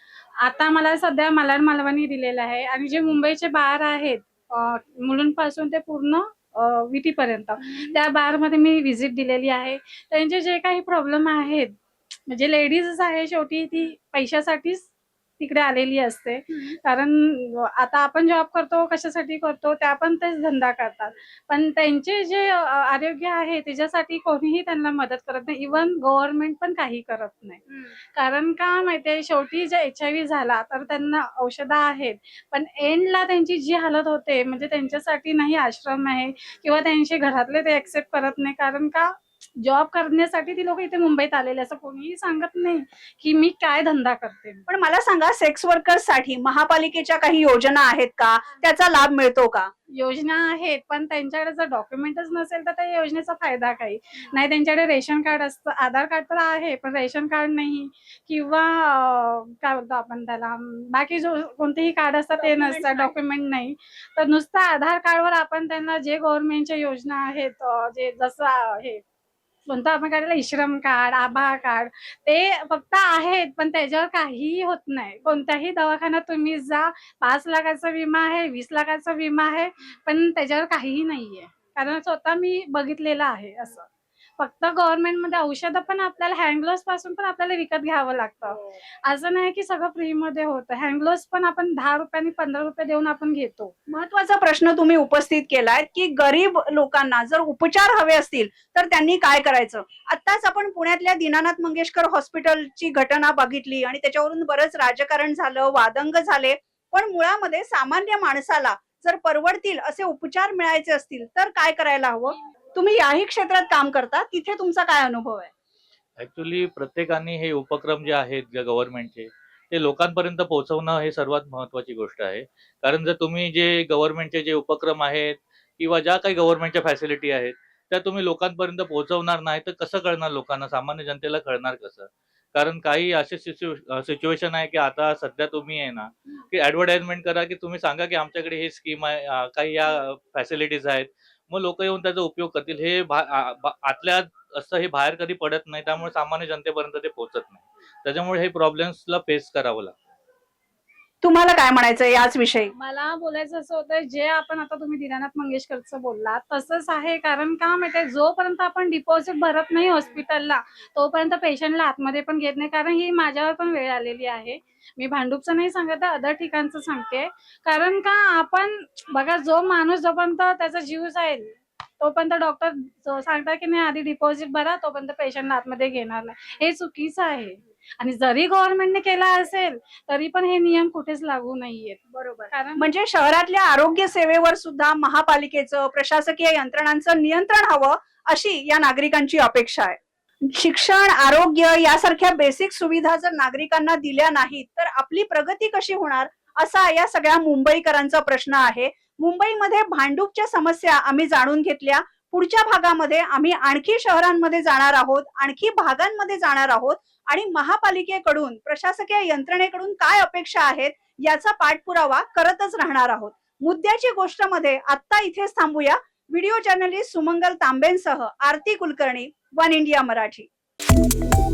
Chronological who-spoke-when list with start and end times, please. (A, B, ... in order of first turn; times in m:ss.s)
0:00.4-0:44.6 A
0:44.7-0:49.7 B
0:49.9-1:09.0 A
1:02.4-1:03.1 B
1:09.7-1:23.9 A
1:24.4-1:33.7 A
1:33.9-1:55.5 B
1:56.2-2:29.9 C
2:31.2-2:32.7 B
2:32.7-3:02.9 A
3:02.8-3:40.5 B